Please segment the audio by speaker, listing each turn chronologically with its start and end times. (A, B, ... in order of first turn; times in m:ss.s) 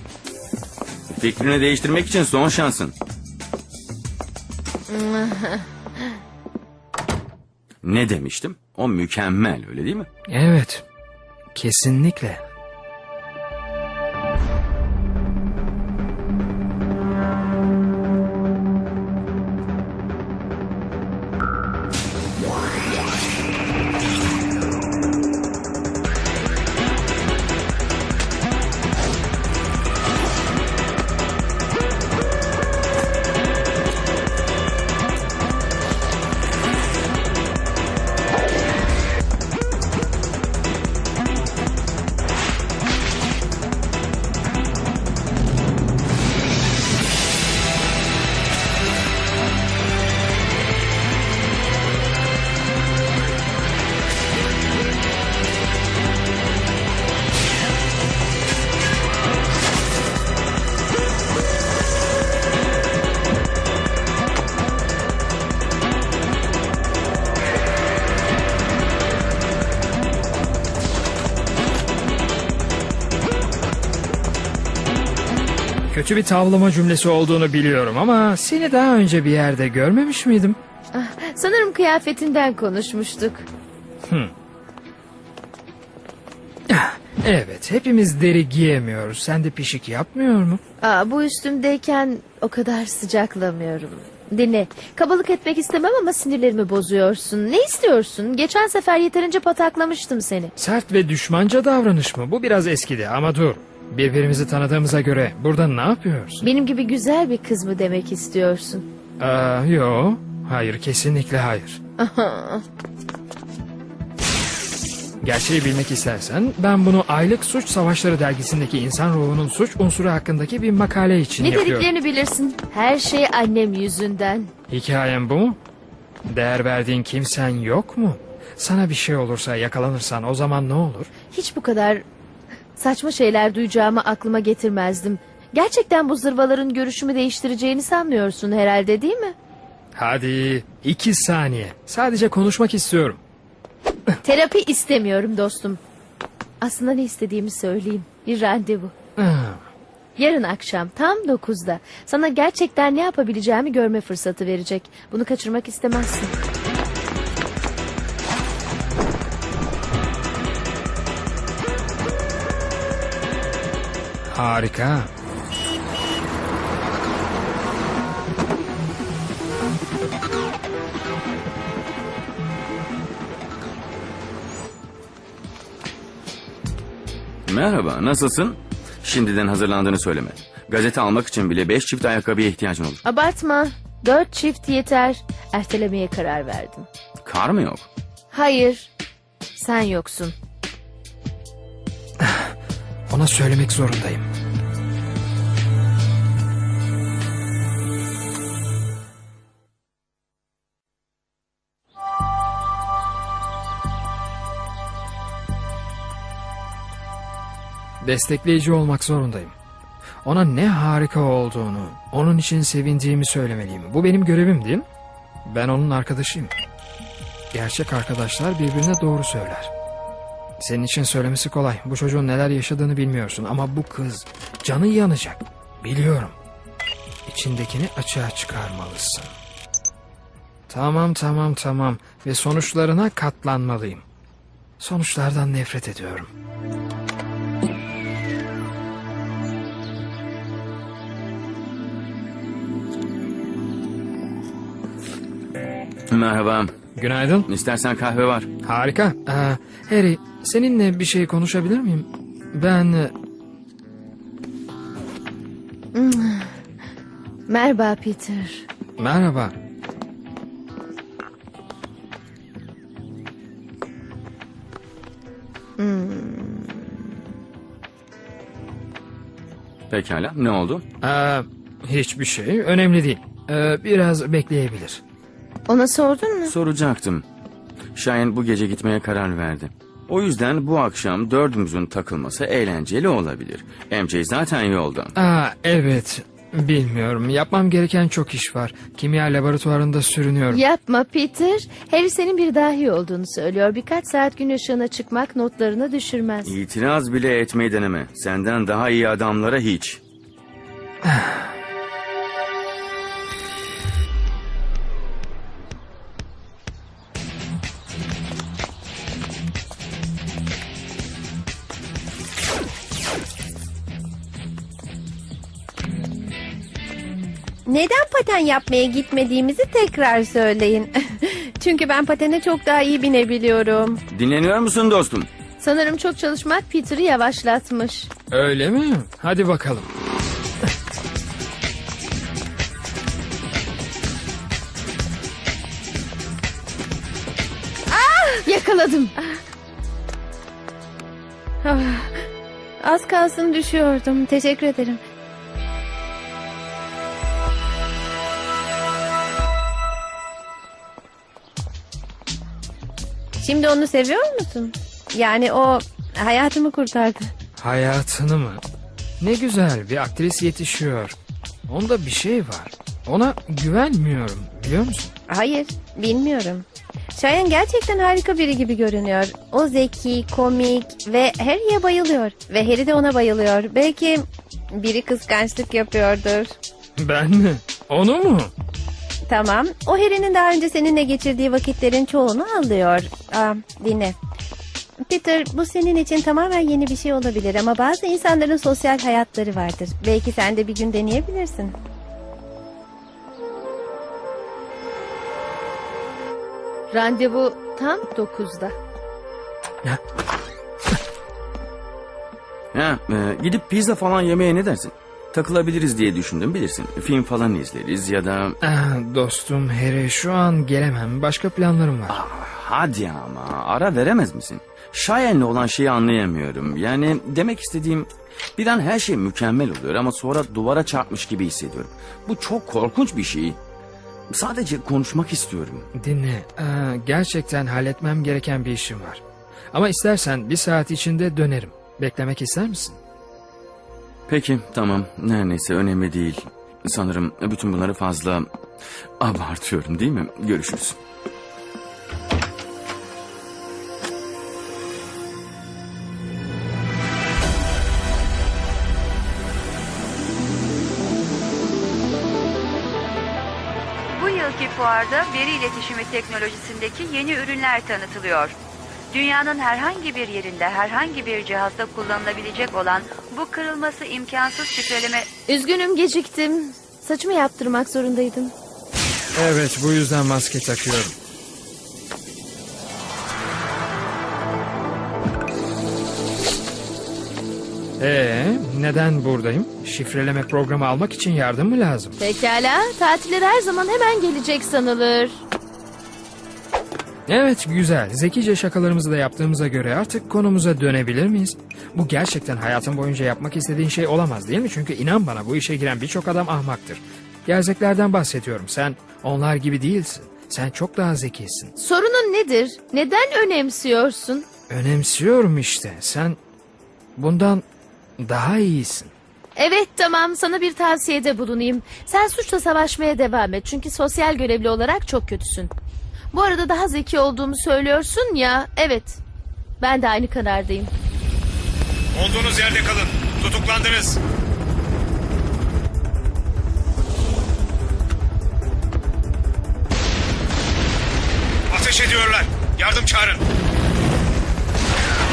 0:01.1-0:02.9 A
0:04.9-0:06.1 B
0:07.8-0:10.1 A
0:10.3-0:10.8 C
0:11.5-0:12.4 C
1:15.9-1:20.6 C
1:20.9-1:23.5 B
1:26.7-1:30.6 C
1:30.8-1:40.5 B
1:40.6-1:46.4 C
1:46.4-1:48.8 B
1:49.2-1:51.8 C
1:52.0-1:52.6 B
1:55.2-2:01.9 C
2:01.4-2:04.5 B
2:04.7-2:05.6 C
2:06.3-2:11.1 C
2:11.3-2:12.0 B
2:12.7-2:19.3 B
2:19.9-2:23.2 C
2:24.2-2:25.8 B
2:26.6-2:28.9 B
2:29.2-2:29.6 C
2:30.2-2:36.3 B
2:44.3-2:45.1 C
2:57.5-3:03.0 A
3:03.0-3:06.9 B
3:07.2-3:07.9 A
3:08.3-3:08.9 B
3:09.6-3:10.3 B
3:12.2-3:12.5 C
3:13.1-3:14.2 C
3:28.0-3:29.5 C
3:30.2-3:34.8 C
3:35.4-3:36.5 C
3:37.5-3:39.7 C
3:40.6-3:46.4 C
3:47.3-3:49.3 C
3:50.7-3:54.0 C
3:54.8-3:56.3 C
4:06.1-4:06.7 A
4:07.0-4:07.5 C
4:07.5-4:08.5 A
4:08.6-4:13.1 C
4:15.9-4:16.6 B
4:17.5-4:18.6 B
4:19.0-4:19.5 C
4:25.8-4:27.1 B
4:29.9-4:30.8 A
4:31.0-4:35.0 C
4:35.7-4:36.5 B
4:36.5-4:37.2 A
4:37.9-4:45.1 A
4:45.2-4:50.6 C
4:50.5-4:56.5 B
4:56.4-5:00.0 A
5:01.1-5:01.4 C
5:17.6-5:24.0 D
5:24.1-5:25.3 A
5:25.6-5:28.1 B
5:28.3-5:29.9 C
5:37.9-5:38.4 D
5:38.4-5:39.2 B
5:41.6-5:42.2 D
5:42.8-5:45.0 D
5:53.4-5:57.3 D
5:57.6-5:58.6 C
5:59.2-6:01.2 C
6:01.7-6:05.1 C
6:05.3-6:16.5 D
6:17.0-6:18.5 C
6:19.3-6:24.2 D
6:25.0-6:31.7 D
6:36.9-6:38.7 B
6:42.7-6:48.6 A
6:48.6-6:52.2 C
6:52.1-7:03.6 A
7:04.3-7:05.9 A
7:05.9-7:13.0 C
7:14.3-7:18.5 A
7:19.2-7:21.0 A
7:34.1-7:38.6 E
7:39.1-7:45.3 E
7:45.5-7:48.5 B
7:49.4-7:51.2 C
7:58.0-8:02.2 C
8:02.2-8:05.4 B
8:07.3-8:21.7 C
8:21.8-8:24.4 B
8:24.7-8:26.4 C
8:27.2-8:27.6 C
8:28.2-8:29.1 C
8:29.6-8:35.7 B
8:36.3-8:39.2 B
8:39.8-8:40.9 B
8:42.1-8:44.2 F
8:42.2-8:42.8 C
8:43.5-8:44.1 C
8:51.7-8:53.4 F